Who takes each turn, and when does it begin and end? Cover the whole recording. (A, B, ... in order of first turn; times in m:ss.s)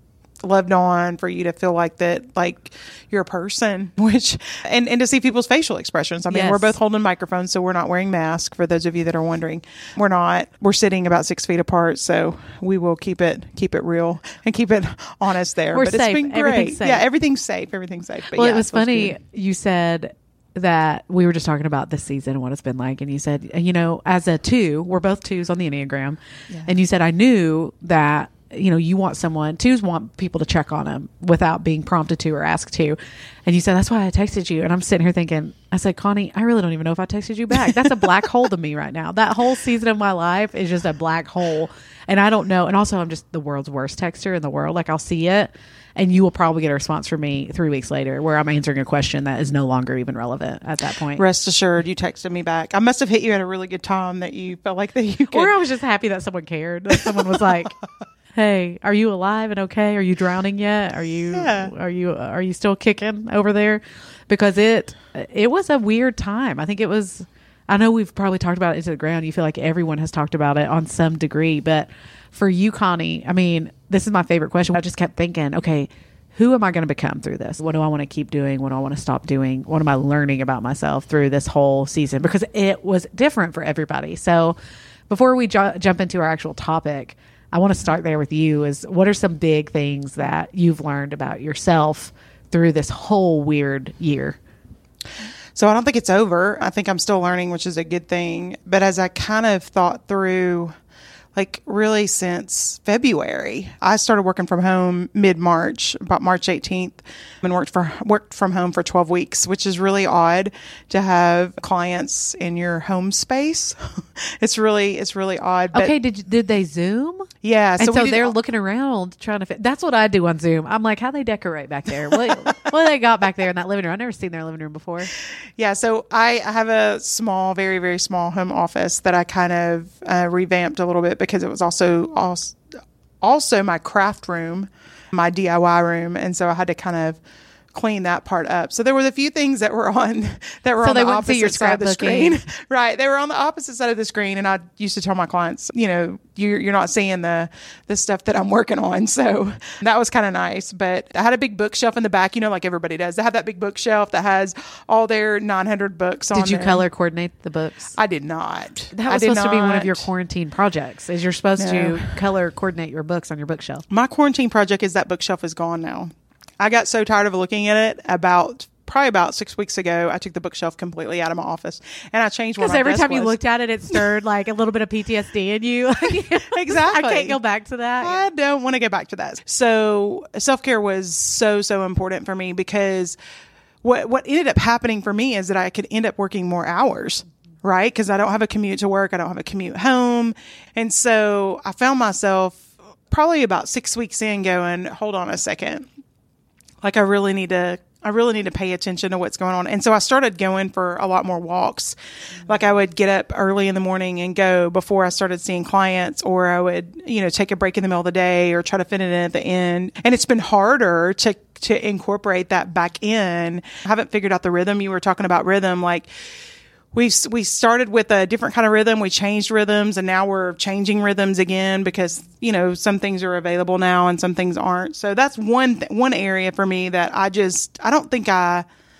0:00.4-0:19.2 A
0:06.3-0:06.8 B
0:15.7-0:17.0 B
0:18.3-0:51.2 B
0:51.1-0:55.6 A
0:55.3-0:57.7 B
0:57.0-0:57.4 A
0:58.3-1:24.6 B
1:01.3-1:01.7 A
1:25.1-1:34.4 B
1:35.6-1:40.7 A
1:41.3-1:55.9 A
1:55.7-2:05.1 B
1:57.4-1:58.3 A
2:05.6-2:12.6 A
2:13.2-2:17.2 A
2:17.7-2:36.8 A
2:20.8-2:22.4 B
2:36.3-2:38.0 B
2:38.0-2:40.0 A
2:38.9-2:43.8 B
2:41.6-2:42.1 A
2:43.9-2:53.4 A
2:52.6-2:58.2 B
2:56.1-2:57.4 A
2:58.0-3:03.2 A
3:03.8-3:15.8 A
3:16.8-3:36.1 A
3:36.9-3:48.6 A